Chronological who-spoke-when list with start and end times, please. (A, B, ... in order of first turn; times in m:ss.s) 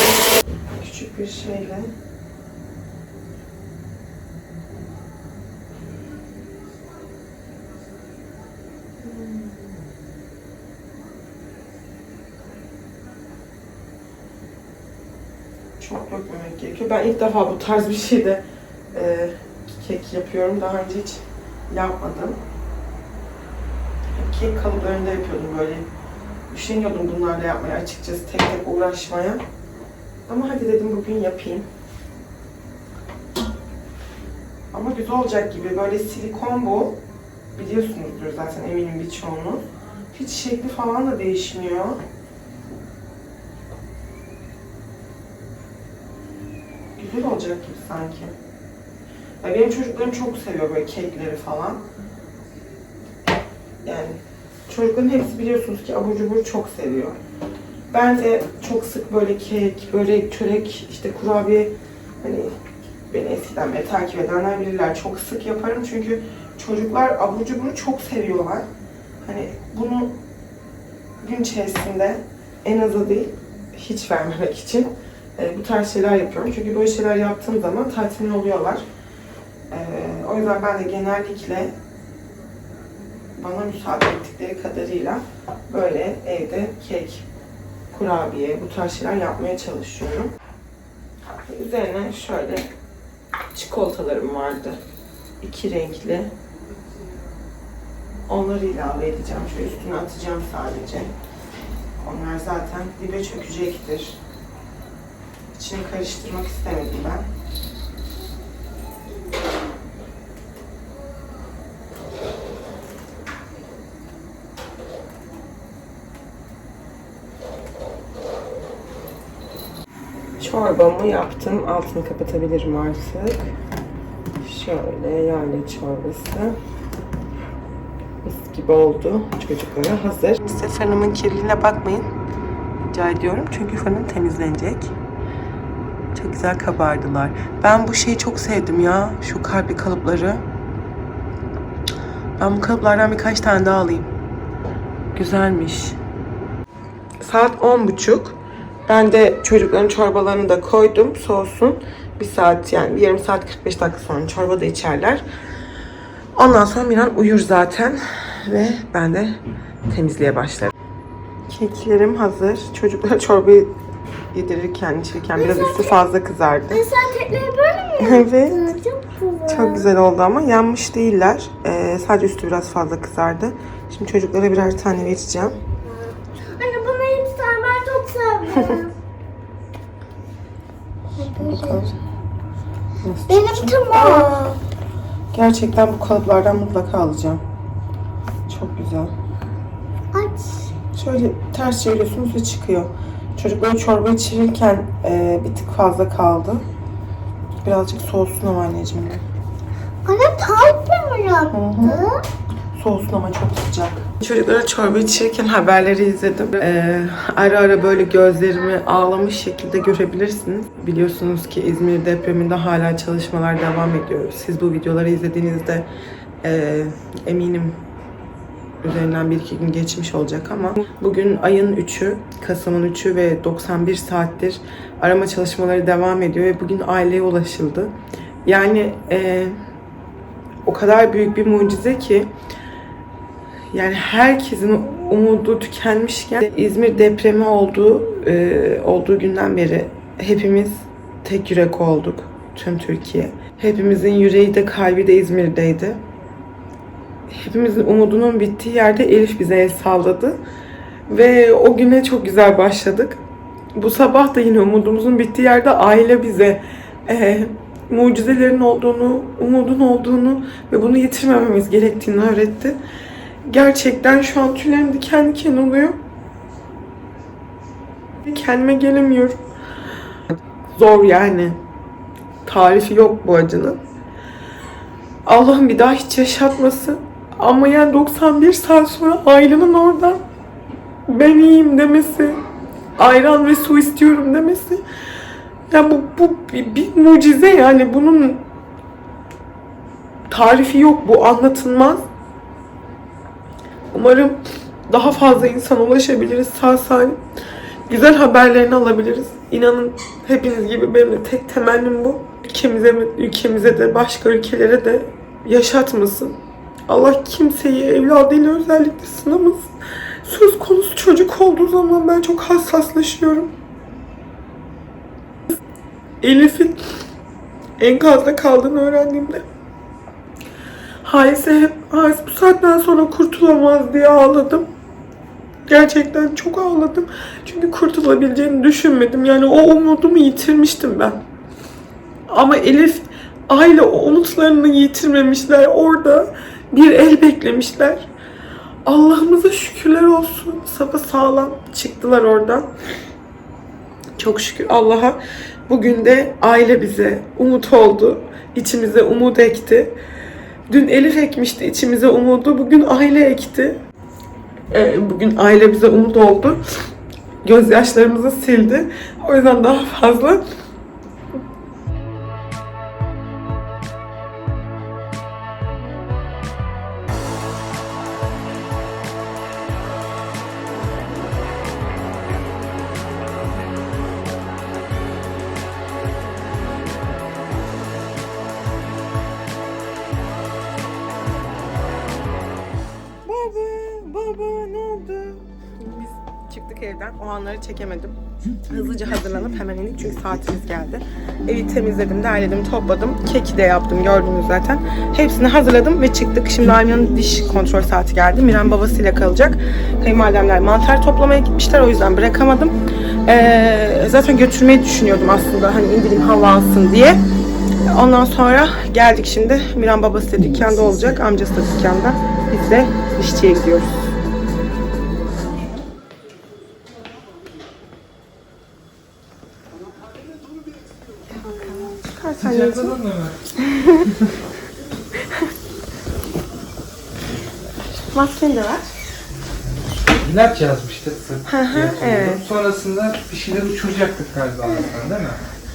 0:00.8-0:01.9 A
0:09.0-0:09.8 A
0:15.8-0:22.4 A
0:24.1-0:25.9 A
0:26.5-0:29.4 A
0:30.3-0:31.7 A
0:34.7-0:37.0 A
0:37.5-0:42.0 A
0:47.0-0:48.4 A
0:49.4-0:51.8 A
0:53.8-0:57.2 A
0:57.9-1:02.5 A
1:03.1-1:08.7 A
1:09.2-1:10.2 A
1:11.2-1:18.8 A
1:19.7-1:21.7 A
1:23.4-1:27.2 A
1:27.9-1:30.3 A
1:31.4-1:32.7 A
1:33.5-1:34.8 A
1:35.4-1:36.3 A
1:38.3-1:41.1 A
1:42.0-1:44.2 A
1:45.6-1:47.3 A
2:00.4-2:03.5 A
2:04.4-2:06.6 A
2:08.2-2:12.1 A
2:12.8-2:14.9 A
2:16.1-2:20.4 A
2:22.4-2:24.1 A
2:25.1-2:26.0 A
2:27.2-2:28.4 A
2:28.9-2:35.2 A
2:36.4-2:40.7 A
2:41.5-2:43.7 A
2:44.3-2:46.8 A
2:45.4-2:46.0 B
2:46.7-2:49.8 B
2:48.0-2:48.7 A
2:49.5-2:55.6 A
2:55.9-2:58.9 B
3:01.2-3:01.9 B
3:01.4-3:01.9 A
3:03.0-3:04.6 A
3:03.3-3:04.3 B
3:05.3-3:07.4 A
3:08.5-3:09.1 A
3:10.1-3:10.7 B
3:10.9-3:16.6 A
3:17.6-3:19.2 A
3:20.0-3:22.2 B
3:21.5-3:22.0 A
3:22.7-3:35.9 A
3:36.4-3:37.8 A
3:38.8-3:49.6 A
3:50.6-3:52.3 A
3:53.7-4:06.0 A
4:07.3-4:10.4 A
4:11.1-4:13.2 A
4:13.7-4:22.8 A
4:23.4-4:26.0 A
4:28.2-4:29.4 A
4:30.8-4:31.6 A
4:32.4-4:33.8 A
4:35.2-4:40.2 A
4:41.1-4:42.4 A
4:43.0-4:44.8 A
4:45.7-4:48.4 A
4:50.3-4:52.0 A
4:53.9-4:54.4 A
4:54.9-4:57.2 A
4:57.9-5:06.4 A
5:06.9-5:13.5 A
5:16.2-5:17.0 A
5:17.8-5:19.4 A
5:21.0-5:24.7 A
5:25.7-5:31.2 A
5:32.3-5:38.1 A
5:38.8-5:42.7 A
5:44.2-5:50.0 A
5:50.7-5:53.8 A
5:54.7-5:56.6 A
5:57.4-6:00.4 A
6:23.2-6:47.2 A
6:47.9-6:54.1 A
6:55.4-6:55.8 C
7:01.4-7:03.0 A
7:02.4-7:03.4 C
7:03.6-7:04.1 A
7:08.1-7:08.9 A
7:09.6-7:15.4 C
7:11.5-7:12.4 A